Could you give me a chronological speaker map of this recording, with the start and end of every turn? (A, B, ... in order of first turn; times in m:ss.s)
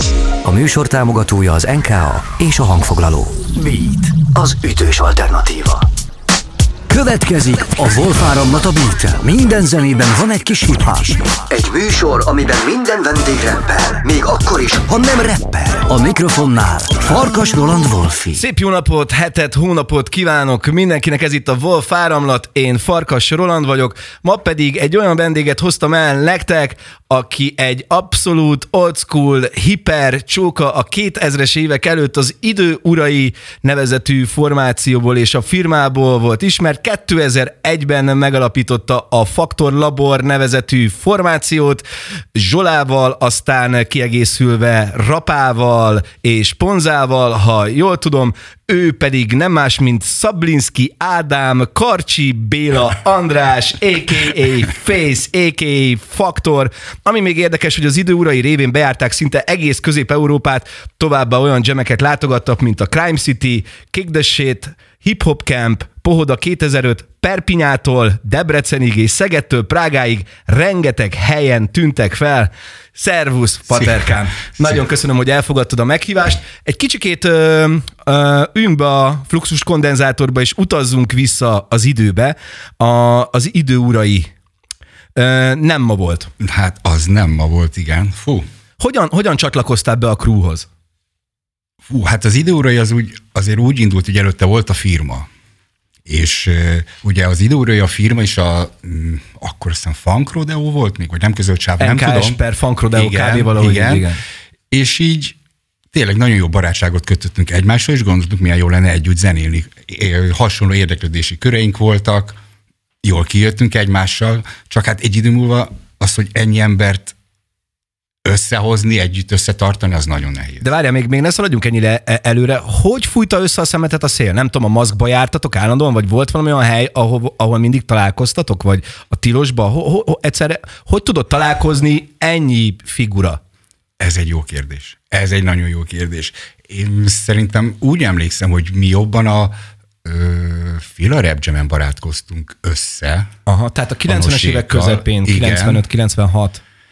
0:00.4-0:05.9 A
0:06.9-0:18.4 A
0:18.3-1:24.3 B
1:13.7-1:14.8 C
1:25.2-1:26.3 B
1:26.4-1:28.4 C
1:28.8-1:30.7 B
1:31.8-1:35.3 C
1:36.0-1:42.4 C
1:41.8-1:44.2 B
1:42.9-1:44.0 C
1:44.7-1:45.4 C
1:45.9-1:52.4 C
1:53.0-1:57.1 C
1:58.2-2:00.7 C
2:00.6-2:13.4 B
2:14.0-2:23.3 C
2:23.5-2:26.6 B
2:24.1-2:25.8 C